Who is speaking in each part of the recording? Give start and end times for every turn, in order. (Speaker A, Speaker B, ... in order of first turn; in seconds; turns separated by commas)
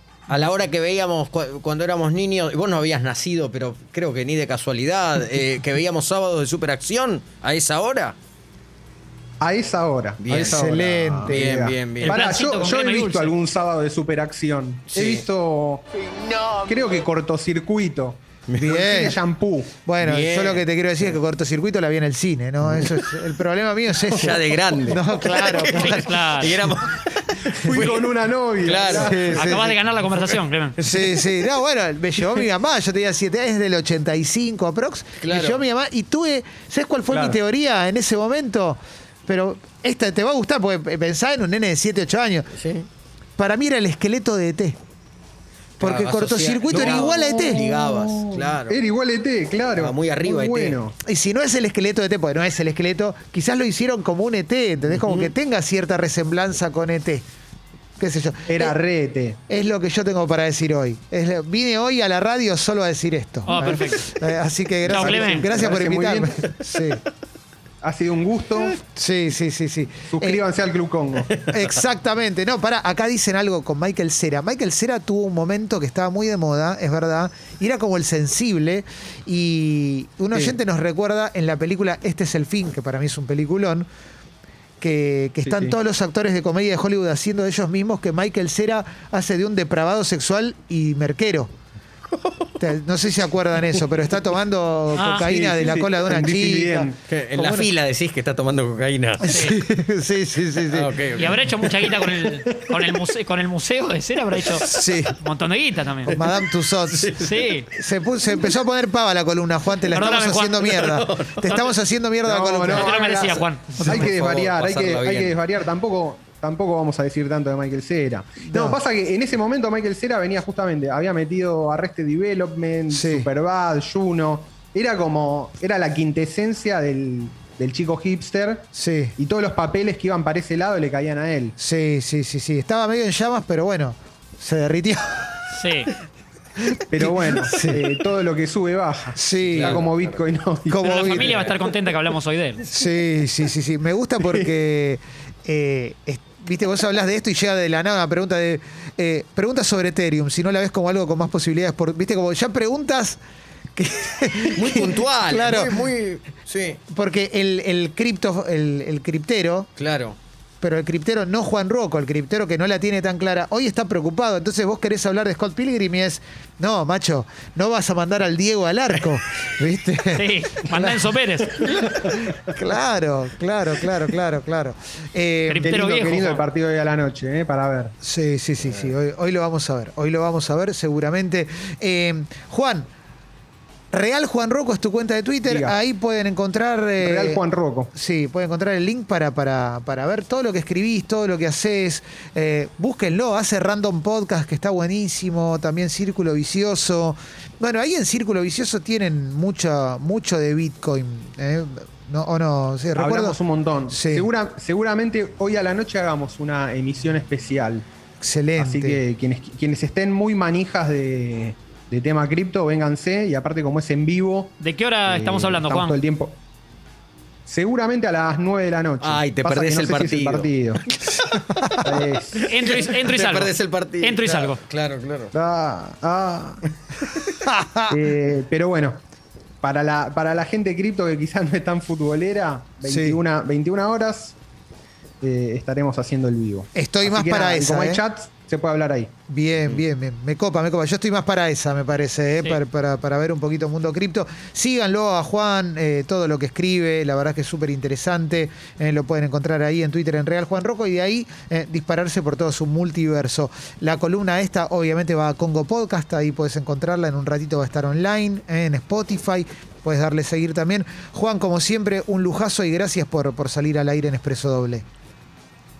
Speaker A: 0.3-8.2, Speaker B: 9.4-15.8, Speaker A: 10.2-10.6, Speaker C: 10.3-11.5, Speaker A: 11.2-12.2, Speaker D: 12.0-13.3, Speaker A: 14.9-15.2, Speaker A: 16.1-16.7, Speaker B: 16.7-19.8, Speaker A: 18.5-18.8, Speaker C: 18.6-19.2, Speaker C: 19.9-26.4, Speaker A: 20.0-20.6, Speaker A: 22.7-23.1, Speaker A: 24.1-28.1, Speaker D: 25.6-26.6, Speaker B: 27.5-29.7, Speaker A: 28.6-29.4, Speaker C: 28.9-29.8, Speaker D: 29.3-30.8, Speaker A: 30.8-31.4, Speaker C: 30.8-42.5, Speaker A: 35.2-35.6, Speaker B: 37.1-37.4, Speaker A: 42.5-42.9, Speaker C: 43.4-44.8, Speaker C: 45.8-47.6, Speaker A: 45.8-48.8, Speaker B: 46.7-51.0, Speaker A: 49.8-50.8, Speaker C: 51.0-57.2, Speaker A: 54.9-55.3, Speaker C: 58.0-58.8, Speaker B: 58.5-59.4, Speaker C: 59.5-67.0, Speaker D: 63.5-64.1, Speaker B: 63.5-63.8, Speaker D: 64.8-65.5, Speaker B: 64.9-66.5, Speaker B: 67.8-68.8, Speaker C: 69.0-70.4, Speaker B: 70.1-71.4, Speaker A: 71.3-71.7, Speaker C: 71.5-83.9, Speaker C: 84.8-91.5, Speaker B: 85.5-85.8, Speaker C: 92.6-97.7, Speaker D: 95.0-95.3, Speaker B: 95.1-97.0, Speaker A: 97.1-99.3, Speaker C: 99.2-101.0, Speaker D: 99.2-99.6, Speaker A: 100.7-102.2, Speaker D: 101.2-106.2, Speaker A: 104.5-105.1, Speaker C: 104.6-105.1, Speaker C: 106.1-107.2, Speaker A: 106.9-107.6, Speaker D: 107.2-107.7, Speaker C: 107.7-113.0, Speaker D: 109.9-110.7, Speaker A: 110.7-111.6, Speaker D: 111.5-111.7, Speaker B: 112.2-131.6, Speaker D: 112.7-114.1, Speaker C: 113.8-114.1, Speaker A: 113.9-115.4, Speaker C: 118.4-118.8, Speaker C: 122.9-123.3, Speaker C: 128.7-129.1, Speaker C: 131.6-135.5, Speaker D: 135.5-135.9, Speaker C: 136.7-137.8, Speaker B: 136.9-141.5, Speaker C: 139.2-139.8, Speaker A: 139.5-139.9, Speaker C: 140.7-141.4, Speaker D: 140.8-142.7, Speaker C: 142.7-153.2, Speaker B: 144.2-144.5, Speaker C: 153.8-155.8, Speaker A: 154.5-156.8, Speaker C: 156.9-159.7, Speaker A: 159.8-160.2, Speaker C: 160.6-171.0, Speaker D: 170.1-171.8, Speaker C: 171.8-175.7, Speaker D: 175.5-176.4, Speaker B: 175.7-177.9, Speaker C: 178.0-182.9, Speaker C: 183.9-187.4, Speaker B: 185.5-185.8, Speaker B: 187.0-187.9, Speaker C: 187.9-203.4, Speaker B: 202.9-207.9, Speaker C: 203.9-204.3, Speaker C: 208.2-209.0, Speaker B: 208.6-216.4, Speaker D: 214.6-216.0, Speaker B: 217.5-220.8, Speaker A: 219.0-225.3, Speaker B: 221.8-222.5, Speaker D: 222.4-224.6, Speaker B: 225.3-226.7, Speaker C: 227.3-227.9, Speaker B: 227.9-229.0, Speaker B: 229.6-234.4, Speaker C: 232.8-233.2, Speaker B: 235.2-239.1, Speaker C: 236.8-238.0, Speaker C: 239.3-264.9